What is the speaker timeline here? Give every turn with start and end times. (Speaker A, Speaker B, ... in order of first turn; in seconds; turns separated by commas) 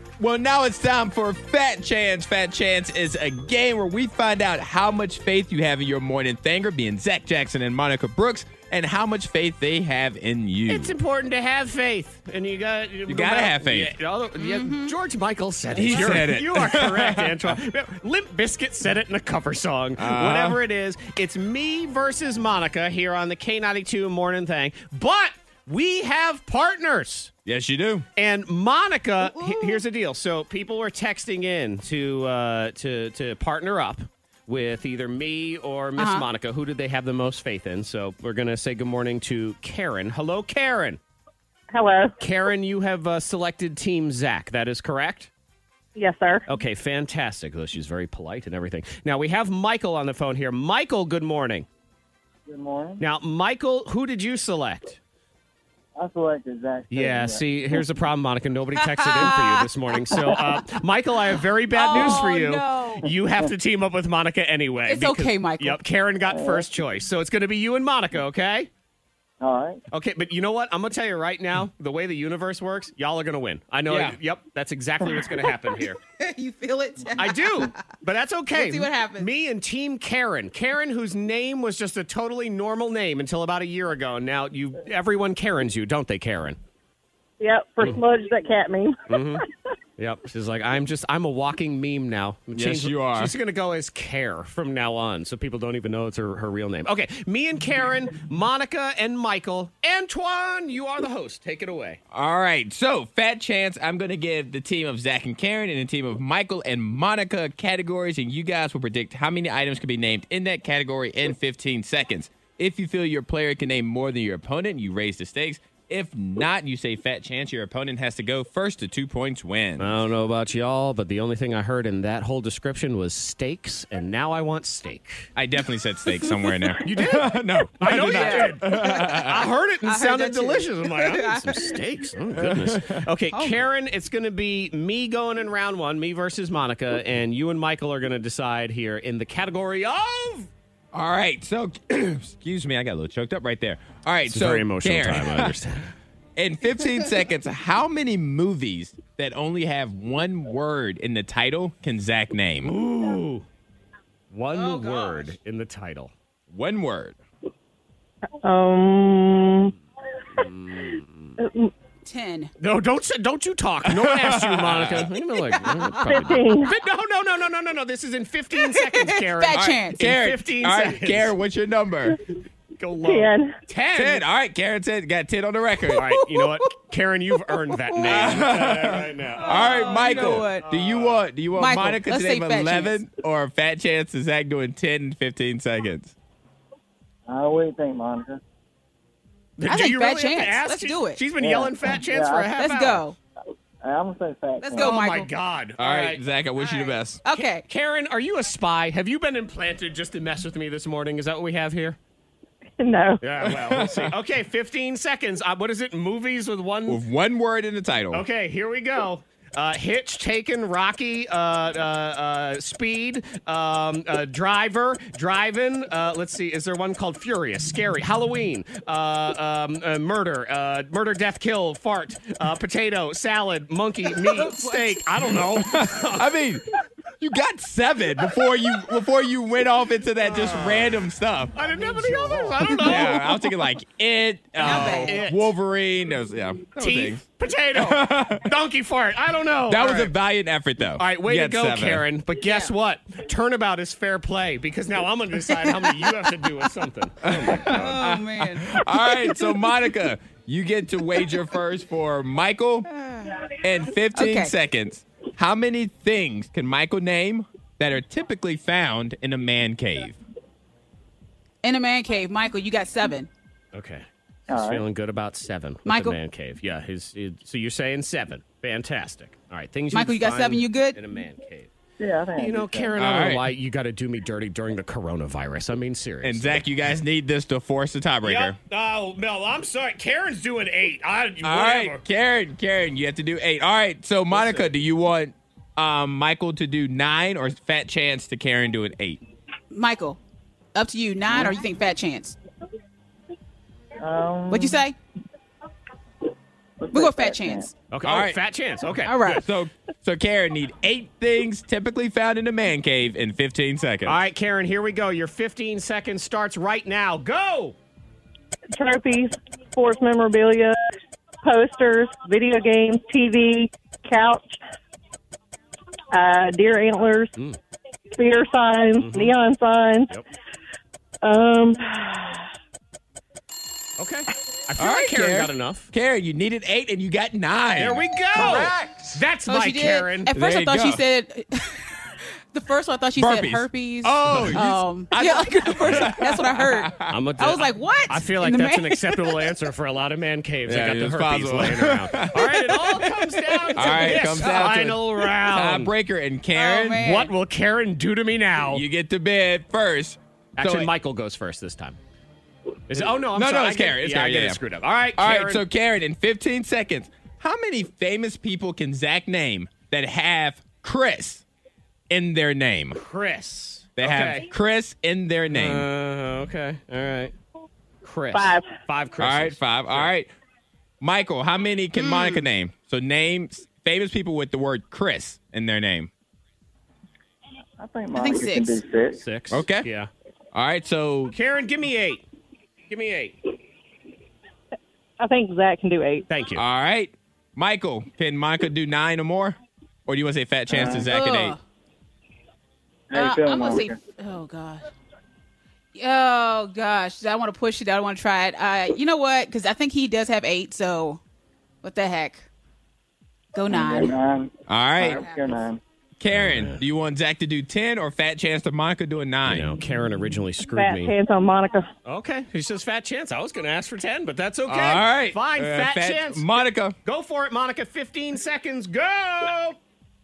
Speaker A: 0.2-10.9, Speaker B: 10.7-27.3, Speaker A: 13.1-13.9, Speaker C: 14.4-14.9, Speaker A: 15.8-17.5, Speaker A: 20.0-20.6, Speaker A: 27.5-28.1, Speaker B: 28.2-41.0, Speaker C: 29.2-29.8, Speaker C: 36.0-36.3, Speaker D: 41.7-42.1, Speaker B: 42.2-45.3, Speaker D: 46.0-46.4, Speaker B: 46.5-51.7, Speaker E: 52.5-53.0, Speaker B: 53.0-55.0, Speaker E: 56.0-57.5, Speaker B: 56.9-68.7, Speaker C: 58.9-59.7, Speaker C: 61.7-63.0, Speaker C: 64.9-65.8, Speaker E: 66.3-66.7, Speaker E: 69.4-69.8, Speaker B: 69.9-76.0, Speaker A: 73.9-74.2, Speaker C: 76.2-77.8, Speaker B: 77.2-86.6, Speaker C: 78.5-79.3, Speaker D: 87.4-89.0, Speaker B: 89.1-89.4, Speaker B: 90.0-102.0, Speaker A: 92.5-93.3, Speaker A: 102.1-120.0, Speaker B: 119.8-125.3, Speaker A: 125.4-129.4, Speaker B: 126.8-140.5, Speaker C: 128.0-129.2, Speaker C: 129.8-131.8, Speaker A: 132.4-133.0, Speaker C: 133.3-133.6, Speaker A: 140.9-145.5, Speaker B: 144.3-145.9, Speaker A: 146.4-152.7, Speaker B: 152.6-153.5, Speaker B: 154.3-156.1, Speaker C: 154.5-155.3, Speaker A: 156.5-157.2, Speaker D: 158.4-159.7, Speaker B: 160.3-161.4, Speaker D: 161.4-161.7, Speaker C: 162.0-162.5, Speaker B: 162.6-171.3, Speaker A: 163.9-165.1, Speaker D: 166.1-166.8, Speaker C: 168.6-170.0, Speaker A: 169.5-172.2, Speaker B: 172.8-174.2, Speaker D: 173.1-173.6, Speaker A: 173.9-176.1, Speaker B: 175.9-181.2, Speaker A: 178.0-186.1, Speaker C: 179.4-180.7, Speaker C: 181.6-183.0, Speaker E: 187.3-188.4, Speaker B: 189.6-193.1, Speaker C: 189.7-191.2, Speaker E: 191.4-192.6, Speaker C: 192.5-193.2, Speaker E: 193.8-195.0, Speaker C: 194.6-195.3, Speaker B: 194.8-196.2, Speaker A: 195.8-197.2, Speaker C: 196.6-197.7, Speaker B: 197.3-202.0, Speaker D: 202.8-203.2, Speaker B: 203.2-207.0, Speaker A: 203.5-204.1, Speaker A: 206.9-208.2, Speaker B: 208.1-226.3, Speaker C: 224.5-224.8, Speaker A: 225.5-226.6, Speaker A: 227.2-231.5, Speaker B: 230.2-231.0, Speaker B: 231.5-233.4, Speaker A: 232.6-237.2, Speaker C: 232.6-233.1, Speaker B: 234.6-235.5, Speaker C: 234.6-235.2, Speaker B: 236.8-240.1, Speaker A: 237.8-238.5, Speaker A: 239.7-242.1, Speaker B: 241.0-248.0, Speaker C: 242.4-242.7, Speaker A: 247.2-252.9, Speaker C: 247.7-249.4, Speaker C: 252.9-253.4, Speaker A: 253.6-260.2, Speaker C: 254.2-254.5, Speaker C: 261.6-263.3, Speaker B: 263.7-271.7, Speaker E: 264.5-264.9, Speaker C: 265.9-266.2, Speaker C: 269.9-271.0, Speaker E: 272.0-272.9, Speaker B: 272.4-276.6, Speaker A: 273.0-273.5, Speaker A: 276.2-278.6, Speaker B: 278.2-282.0, Speaker A: 281.4-289.2, Speaker B: 284.3-284.7, Speaker C: 289.7-290.2, Speaker C: 290.8-292.4, Speaker E: 294.0-294.8, Speaker C: 294.5-294.9, Speaker E: 296.8-297.7, Speaker C: 296.9-297.7, Speaker B: 297.9-299.4, Speaker A: 298.0-298.4, Speaker C: 299.0-299.4, Speaker A: 299.4-304.2, Speaker B: 304.1-307.8, Speaker D: 308.7-310.8, Speaker D: 311.4-314.6, Speaker D: 316.1-317.3, Speaker D: 318.1-320.1, Speaker B: 319.0-319.3, Speaker D: 321.2-322.5, Speaker B: 324.0-325.9, Speaker A: 324.8-329.1, Speaker B: 327.8-330.3, Speaker C: 328.4-328.7, Speaker C: 329.5-331.9, Speaker A: 330.3-331.0, Speaker C: 332.5-339.4, Speaker A: 333.2-337.1, Speaker B: 334.2-334.6, Speaker B: 335.8-336.1, Speaker B: 337.1-345.9, Speaker A: 340.7-347.1, Speaker C: 343.8-344.7, Speaker C: 346.5-347.3, Speaker B: 346.9-348.8, Speaker A: 348.7-350.9, Speaker B: 350.6-352.0, Speaker B: 352.9-355.6, Speaker A: 353.3-354.6, Speaker A: 355.2-361.4, Speaker A: 362.1-363.0, Speaker B: 362.9-364.5, Speaker A: 364.0-365.9, Speaker B: 365.5-367.4, Speaker B: 368.0-370.1, Speaker D: 368.3-368.7, Speaker A: 369.2-370.3, Speaker A: 371.0-376.1, Speaker C: 372.0-372.4, Speaker E: 377.8-379.2, Speaker C: 378.1-378.8, Speaker B: 379.1-380.1, Speaker A: 379.5-379.9, Speaker A: 380.5-381.3, Speaker B: 381.3-382.2, Speaker B: 382.9-383.4, Speaker D: 385.2-386.3, Speaker B: 386.3-386.6, Speaker A: 386.6-391.6, Speaker E: 390.7-391.1, Speaker C: 390.8-391.6, Speaker E: 393.1-393.9, Speaker C: 393.1-394.9, Speaker C: 395.9-401.2, Speaker C: 401.8-402.5, Speaker C: 403.5-404.2, Speaker E: 403.7-405.8, Speaker A: 404.7-405.2, Speaker C: 405.1-405.5, Speaker A: 406.2-409.8, Speaker B: 406.3-406.8, Speaker B: 409.5-411.1, Speaker D: 410.7-411.9, Speaker B: 412.1-419.8, Speaker A: 414.7-417.0